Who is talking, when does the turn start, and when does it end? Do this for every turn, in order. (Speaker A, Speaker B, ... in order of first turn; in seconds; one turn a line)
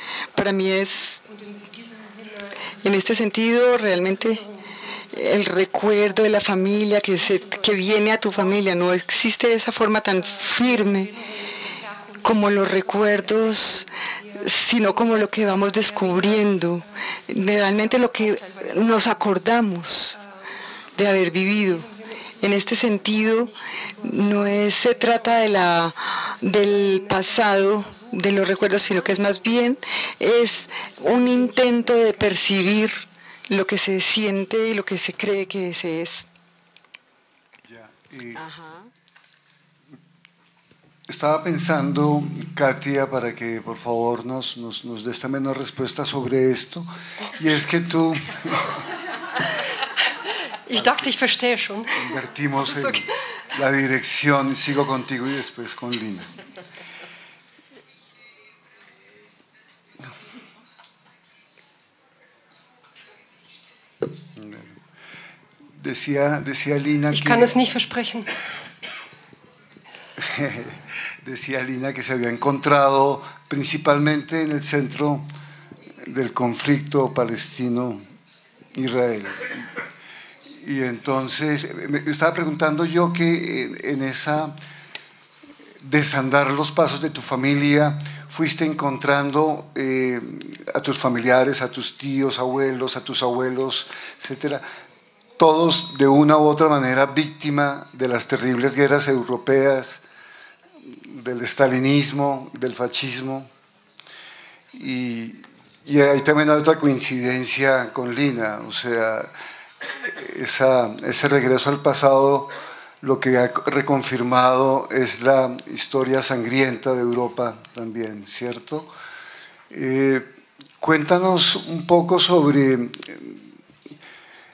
Speaker A: 0.3-1.1
Speaker B: 0.3-9.2
Speaker A: 2.8-4.4
Speaker A: 5.1-11.1
Speaker B: 10.1-19.5
Speaker A: 12.2-13.9
Speaker A: 14.4-20.1
Speaker B: 20.1-33.0
Speaker A: 21.0-21.9
Speaker A: 22.4-23.5
Speaker A: 24.0-36.2
Speaker C: 37.6-38.4
Speaker A: 38.4-38.9
Speaker C: 41.1-48.8
Speaker B: 50.7-52.1
Speaker C: 51.9-56.3
Speaker B: 52.7-53.1
Speaker C: 64.3-64.8
Speaker C: 65.7-67.5
Speaker B: 67.1-68.4
Speaker C: 70.2-75.2
Speaker C: 76.0-78.0
Speaker C: 78.7-79.8
Speaker C: 80.5-84.5
Speaker C: 85.8-94.6
Speaker C: 95.4-100.0
Speaker C: 100.8-103.5
Speaker C: 104.7-109.3
Speaker C: 110.0-112.5
Speaker C: 113.0-118.9
Speaker C: 119.7-120.3
Speaker C: 120.8-123.4